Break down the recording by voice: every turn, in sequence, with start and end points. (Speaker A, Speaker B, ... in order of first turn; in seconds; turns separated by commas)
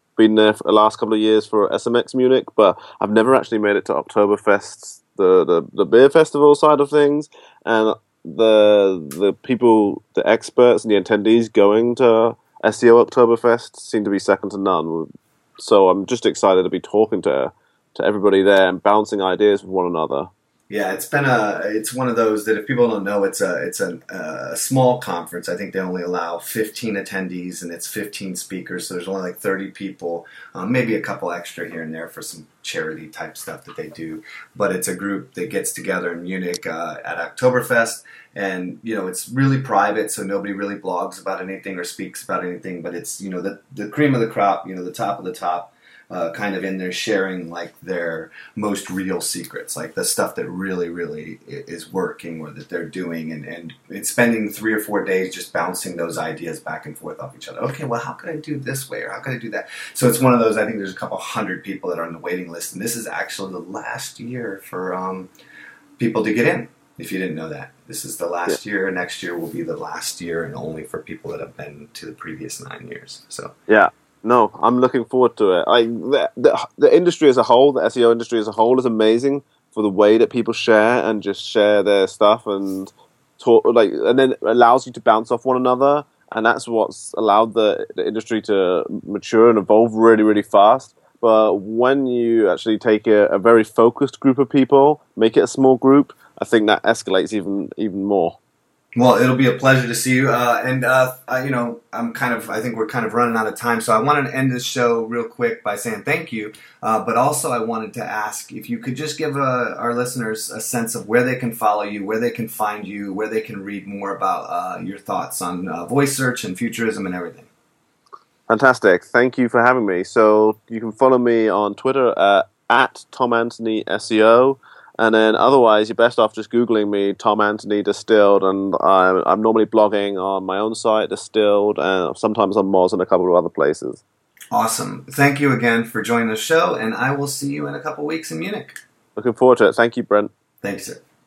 Speaker A: 0.2-20.3, Speaker B: 20.7-65.3, Speaker B: 66.0-73.5, Speaker A: 73.7-98.4, Speaker B: 99.0-117.5, Speaker A: 118.5-134.0, Speaker B: 134.5-138.8, Speaker A: 139.2-140.3, Speaker B: 140.6-141.0